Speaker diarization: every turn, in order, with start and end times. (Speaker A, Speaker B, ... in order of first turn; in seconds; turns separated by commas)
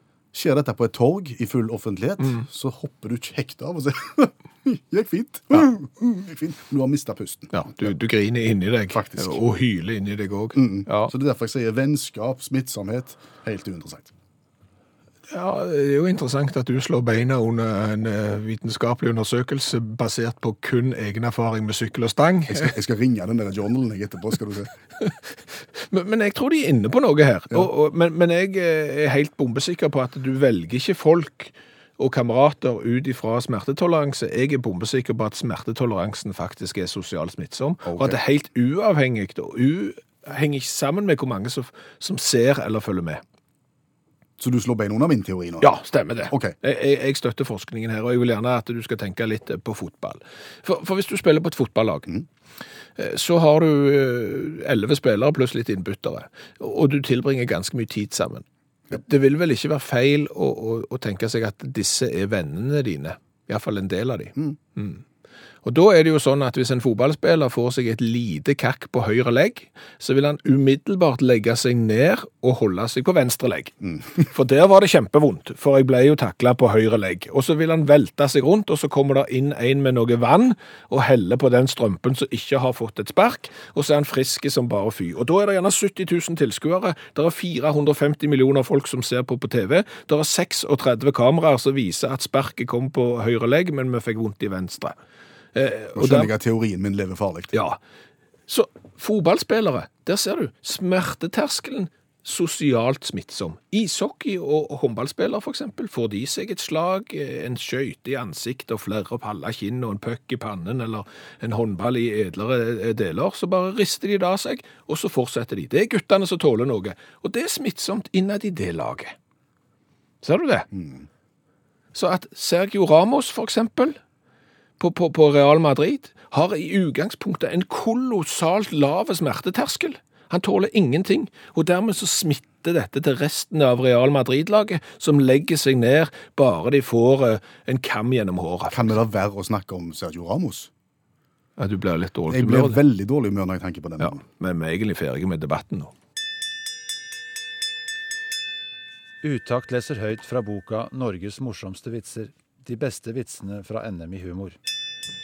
Speaker A: 0.3-7.9, Speaker B: 7.5-11.1, Speaker A: 8.9-9.4, Speaker A: 10.6-14.1, Speaker B: 15.3-22.7, Speaker A: 22.5-24.7, Speaker B: 25.0-43.2, Speaker A: 37.8-38.2, Speaker A: 44.4-45.7, Speaker B: 45.6-52.1, Speaker A: 46.3-46.5, Speaker B: 53.0-65.0, Speaker B: 65.6-95.0, Speaker B: 95.5-96.3, Speaker A: 96.0-97.5, Speaker B: 97.5-97.8, Speaker B: 98.5-119.2, Speaker B: 120.2-120.7, Speaker A: 120.7-121.1, Speaker B: 121.9-124.0, Speaker B: 124.8-139.0, Speaker A: 138.7-140.7, Speaker B: 141.6-142.8, Speaker A: 142.3-144.2, Speaker B: 144.0-145.9, Speaker C: 149.2-154.6